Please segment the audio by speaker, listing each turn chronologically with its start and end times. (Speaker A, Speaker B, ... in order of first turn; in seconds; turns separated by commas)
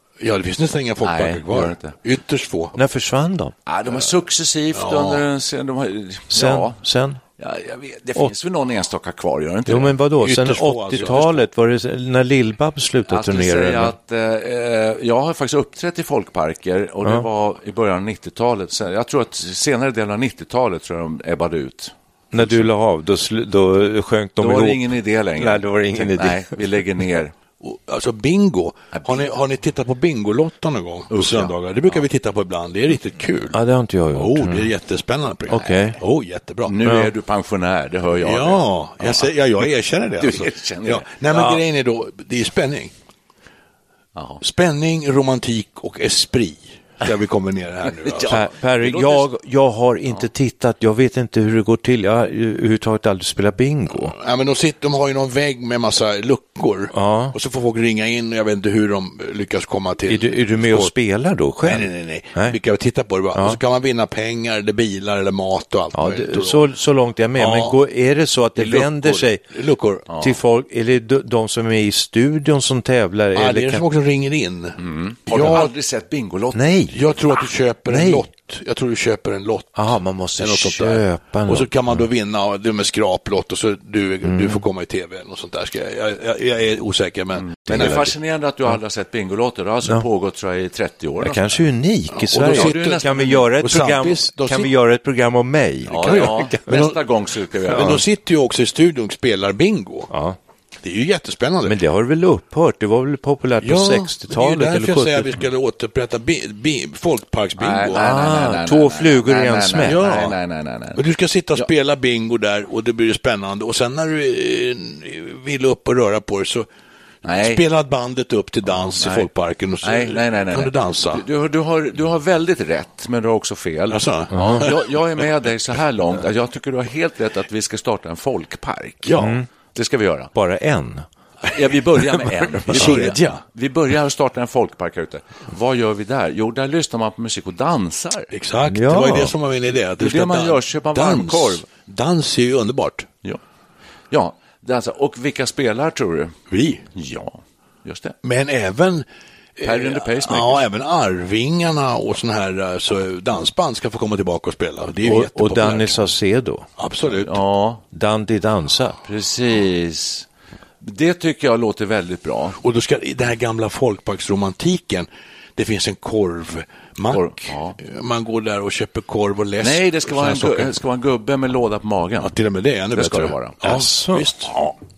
Speaker A: 0.2-2.8, Speaker B: 1.0-2.0, Speaker C: 2.8-3.5, Speaker B: 3.7-6.8, Speaker A: 4.7-5.2, Speaker C: 6.3-7.2, Speaker B: 7.4-10.0, Speaker C: 9.7-13.9, Speaker A: 10.2-11.4, Speaker B: 13.1-22.7, Speaker C: 22.3-24.8, Speaker B: 24.4-27.4, Speaker C: 25.4-26.6, Speaker A: 27.6-33.6, Speaker B: 28.9-29.2, Speaker B: 31.1-32.0, Speaker C: 33.5-34.7, Speaker A: 34.1-36.7, Speaker C: 35.5-36.0, Speaker B: 36.7-39.3, Speaker A: 38.2-42.9, Speaker B: 40.2-41.1, Speaker C: 41.3-41.6, Speaker B: 44.2-44.4, Speaker A: 44.4-48.4, Speaker B: 48.0-49.3, Speaker C: 48.3-54.1, Speaker A: 54.0-60.9, Speaker C: 56.9-57.4, Speaker C: 60.1-62.6, Speaker A: 61.6-66.7, Speaker C: 65.9-69.4, Speaker A: 67.4-67.8, Speaker B: 68.6-69.3, Speaker A: 69.5-70.0, Speaker C: 70.2-73.8, Speaker A: 73.3-75.7, Speaker B: 74.8-76.8, Speaker C: 76.5-77.0, Speaker A: 76.9-88.1, Speaker C: 77.9-78.3, Speaker C: 79.8-82.0, Speaker C: 84.2-84.7, Speaker B: 87.3-91.6, Speaker C: 87.7-88.1, Speaker C: 91.2-96.7, Speaker A: 92.1-94.7, Speaker B: 92.4-93.5, Speaker B: 95.9-98.0, Speaker A: 96.0-97.0, Speaker A: 97.7-100.1, Speaker C: 97.7-98.0, Speaker C: 100.1-100.4, Speaker A: 100.8-101.8, Speaker C: 101.6-105.3, Speaker A: 103.6-108.0, Speaker B: 107.6-111.0, Speaker C: 107.9-110.3, Speaker A: 109.8-110.3, Speaker A: 111.0-116.7, Speaker B: 117.2-117.6, Speaker A: 117.4-121.2, Speaker B: 118.7-119.3, Speaker B: 119.8-129.2, Speaker A: 123.9-124.8, Speaker C: 124.4-124.7, Speaker A: 129.0-129.4, Speaker C: 129.2-129.4, Speaker B: 129.7-130.3, Speaker C: 130.3-131.1, Speaker B: 131.5-138.3, Speaker C: 132.2-133.1, Speaker A: 132.7-133.4, Speaker A: 138.3-143.1, Speaker C: 138.7-139.3, Speaker B: 140.0-141.7, Speaker B: 144.1-146.4, Speaker A: 146.5-146.8, Speaker B: 146.9-148.2, Speaker A: 148.2-149.1, Speaker A: 149.6-156.0, Speaker B: 149.6-150.7, Speaker C: 155.1-156.7, Speaker A: 156.8-157.4, Speaker B: 157.1-157.8, Speaker C: 157.9-159.0, Speaker B: 159.1-160.3, Speaker B: 160.8-162.6, Speaker A: 162.6-170.7, Speaker B: 167.1-167.8, Speaker B: 169.6-172.3, Speaker A: 172.2-174.5, Speaker B: 172.9-173.8, Speaker C: 173.6-174.3